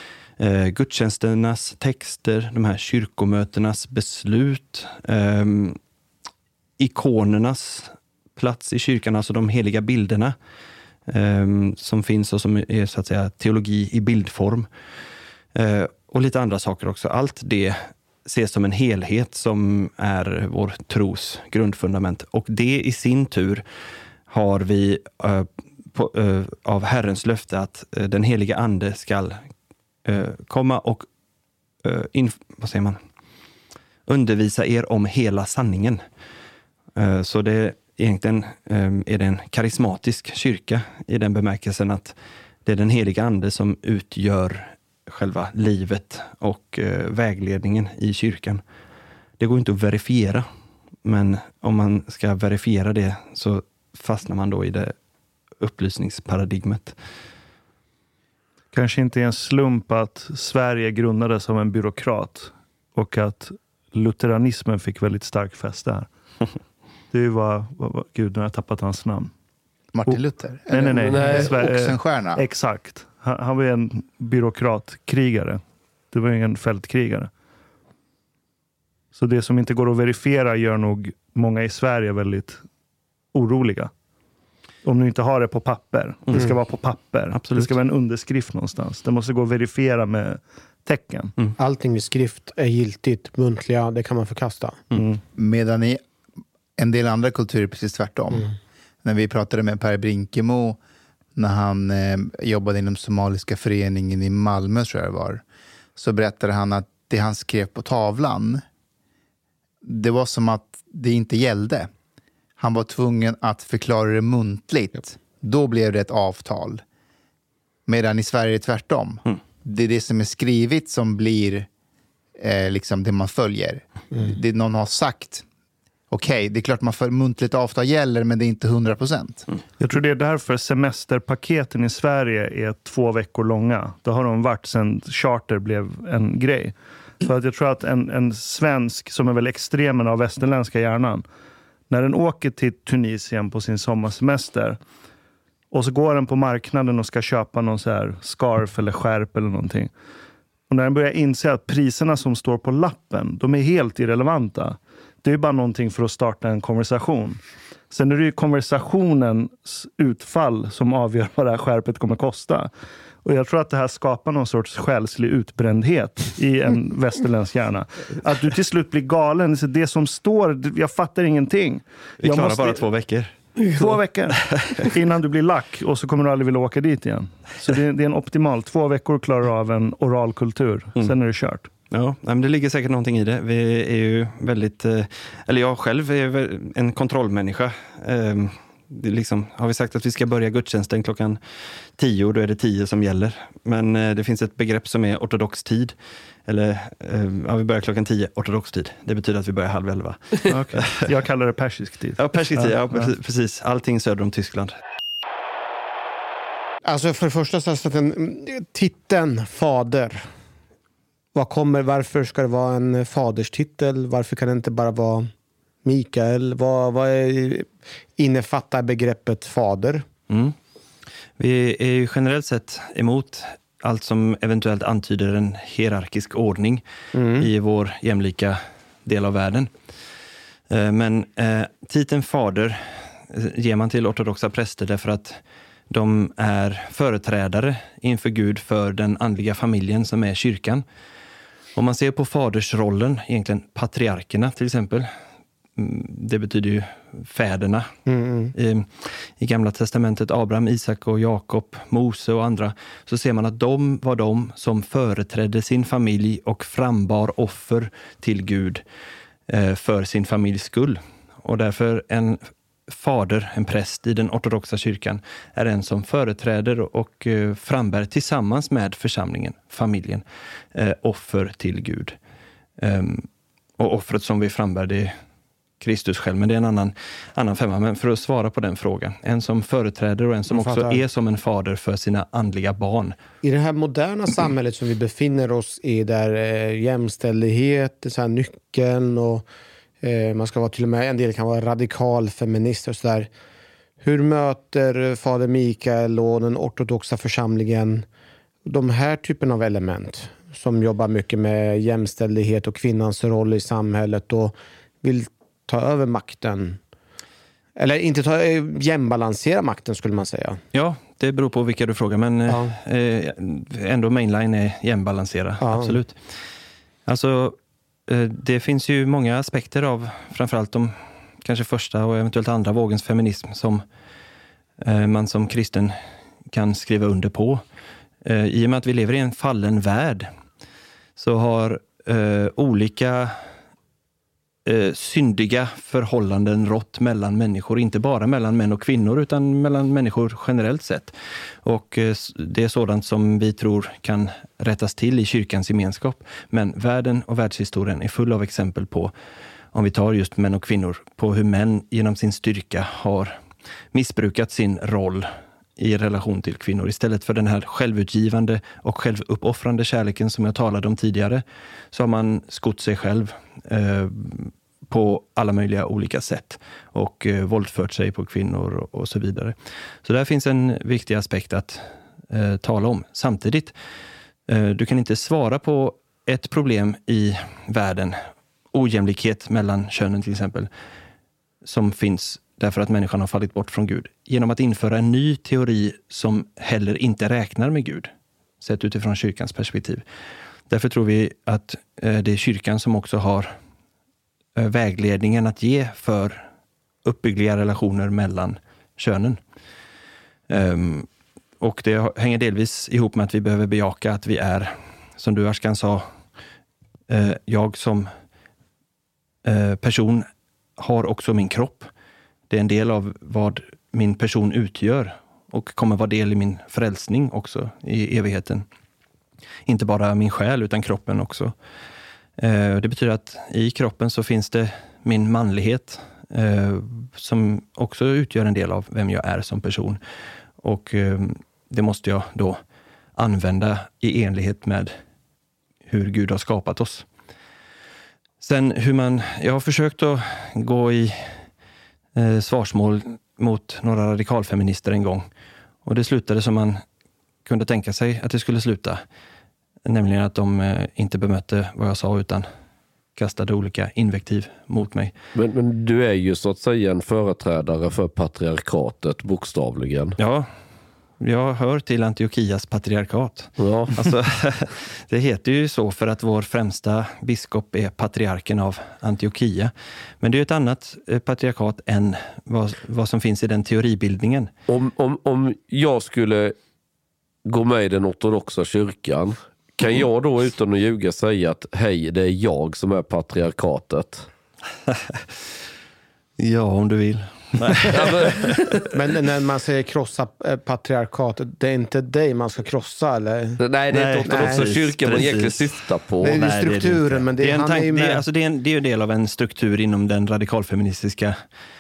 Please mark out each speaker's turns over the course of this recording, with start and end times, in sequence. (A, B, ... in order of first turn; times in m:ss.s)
0:00.4-0:05.8 A
0:06.8-0:10.4 A
0:11.1-0:14.7 A
0:15.6-0:23.6 A
0:24.3-0:29.4 A
0:30.0-0:31.1 A
0:31.8-0:33.0 A
0:34.1-0:36.0 A
0:37.0-0:48.6 A
0:49.4-0:50.5 A
0:51.0-0:54.9 A
0:55.6-0:57.0 A
0:58.7-1:06.1 B
1:07.1-1:09.3 B
1:09.9-1:12.4 C
1:10.1-1:15.6 B
1:11.0-1:11.5 D
1:16.1-1:17.3 B
1:19.1-1:22.6 B
1:23.3-1:23.9 B
1:24.8-1:31.3 B
1:27.4-1:27.7 A
1:31.6-1:34.8 E
1:35.4-1:36.0 C
1:36.8-1:38.5 C
1:39.0-1:40.8 C
1:41.4-1:45.4 C
1:46.0-1:48.6 C
1:49.8-1:51.9 C
1:52.6-1:56.8 C
1:57.9-2:01.7 C
2:02.4-2:05.4 C
2:06.1-2:09.5 C
2:09.8-2:21.2 B
2:21.9-2:24.8 B
2:25.7-2:29.9 B
2:30.7-2:42.7 B
2:43.2-2:52.8 B
2:52.2-2:54.0 A
2:53.7-3:01.7 B
2:54.5-2:54.8 A
3:01.9-3:11.4 A
3:12.0-3:16.0 A
3:16.5-3:21.0 A
3:20.5-3:23.1 B
3:22.2-3:24.8 A
3:26.8-3:30.3 E
3:31.4-3:35.3 E
3:35.8-3:40.0 E
3:40.3-3:40.6 A
3:41.4-3:46.8 A
3:47.1-3:47.5 E
3:47.4-3:49.7 A
3:50.7-4:00.8 A
4:01.8-4:05.1 A
4:05.8-4:07.9 A
4:08.1-4:08.5 E
4:08.5-4:18.8 A
4:19.5-4:32.2 A
4:32.8-4:33.3 A
4:33.8-4:35.2 A
4:35.8-4:43.2 A
4:40.5-4:41.0 E
4:43.4-4:49.5 E
4:50.0-4:53.3 E
4:54.0-4:58.1 E
4:58.7-5:06.8 E
5:07.8-5:10.6 E
5:10.7-5:16.2 A
5:15.6-5:16.0 E
5:17.1-5:17.6 A
5:18.1-5:23.8 A
5:24.8-5:26.0 A
5:26.5-5:27.6 A
5:28.2-5:30.3 A
5:31.2-5:33.4 A
5:34.7-5:49.1 A
5:49.7-5:53.4 A
5:53.9-6:13.7 A
6:14.5-6:18.2 A
6:18.7-6:20.7 A
6:21.6-6:30.0 A
6:30.7-6:33.5 A
6:34.6-6:36.5 A
6:37.0-6:39.4 A
6:40.5-6:41.1 A
6:41.6-6:46.1 A
6:47.1-6:48.1 A
6:49.4-6:50.3 A
6:50.8-6:51.9 A
6:52.5-6:58.6 A
6:59.7-7:01.5 A
7:02.4-7:10.0 A
7:10.6-7:12.6 A
7:13.2-7:14.9 A
7:15.9-7:17.0 A
7:18.4-7:21.4 A
7:22.2-7:25.3 A
7:25.8-7:26.8 A
7:27.4-7:29.0 A
7:29.9-7:32.5 A
7:33.2-7:35.1 A
7:35.4-7:40.2 D
7:40.2-7:40.5 A
7:41.2-7:54.5 A
7:43.6-7:44.0 D
7:54.7-7:56.5 D
7:57.5-8:04.3 D
8:04.9-8:05.2 A
8:06.4-8:08.8 A
8:07.9-8:08.8 D
8:08.9-8:13.6 E
8:13.6-8:16.3 D
8:13.9-8:21.4 A
8:14.3-8:14.7 E
8:16.2-8:18.2 E